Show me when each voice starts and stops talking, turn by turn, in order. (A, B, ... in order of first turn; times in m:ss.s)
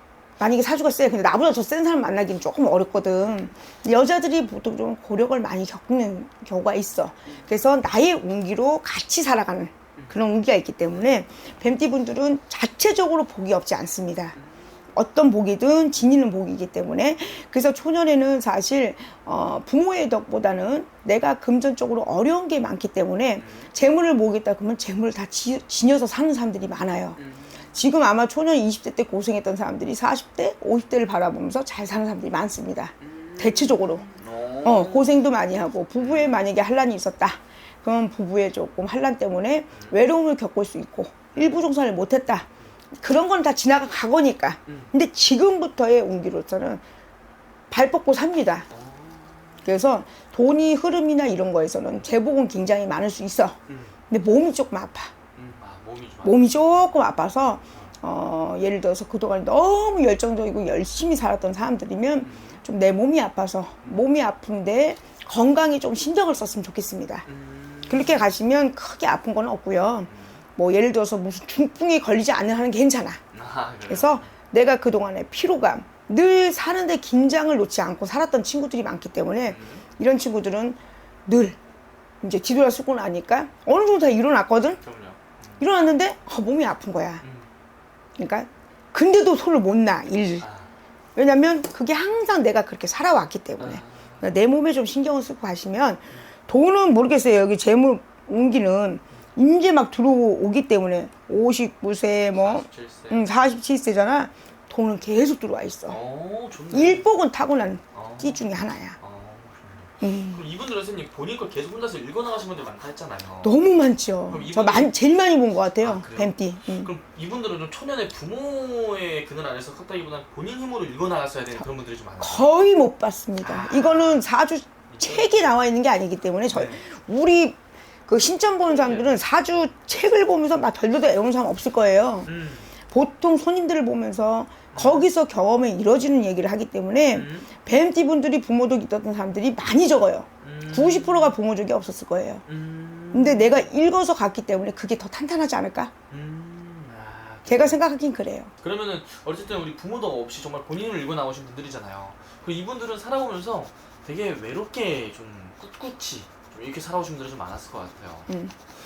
0:00.4-0:14.4 A
0:14.4-0:14.7 B
0:14.9-0:27.2 A
0:23.4-0:23.7 B
0:27.2-0:27.7 B
0:27.7-0:34.0 A
0:33.0-0:35.2 B
0:34.6-0:46.8 A
0:36.0-0:36.3 B
0:41.4-0:41.6 B
0:47.7-0:48.7 A
0:48.7-0:49.6 B
0:49.6-0:55.1 A
0:53.7-0:53.9 B
0:55.3-0:56.5 B
0:56.2-1:07.2 A
1:02.2-1:02.6 B
1:07.2-1:08.3 B
1:07.9-1:13.2 A
1:10.1-1:10.4 B
1:13.3-1:14.3 B
1:13.9-1:21.6 A
1:19.5-1:19.8 B
1:22.2-1:24.8 A
1:24.8-1:25.6 B
1:25.6-1:27.2 A
1:27.2-1:27.5 B
1:28.2-1:30.4 A
1:30.4-1:30.7 B
1:31.2-1:46.0 A
1:33.6-1:34.4 B
1:42.3-1:43.3 B
1:45.9-1:47.1 B
1:46.7-1:49.0 A
1:47.9-1:48.5 B
1:49.0-1:53.6 B
1:50.0-1:50.4 A
1:53.4-1:56.9 A
1:54.3-1:54.9 B
1:55.8-2:02.5 B
2:02.2-2:12.3 A
2:03.4-2:04.2 B
2:04.9-2:05.4 B
2:06.5-2:06.8 B
2:08.7-2:09.1 B
2:12.2-2:12.7 B
2:12.9-2:22.4 A
2:14.7-2:15.1 B
2:17.1-2:17.5 B
2:20.4-2:21.3 B
2:22.4-2:23.7 B
2:23.1-2:25.9 A
2:26.1-2:27.8 B
2:27.5-2:28.5 A
2:28.6-2:38.3 B
2:38.3-2:38.5 A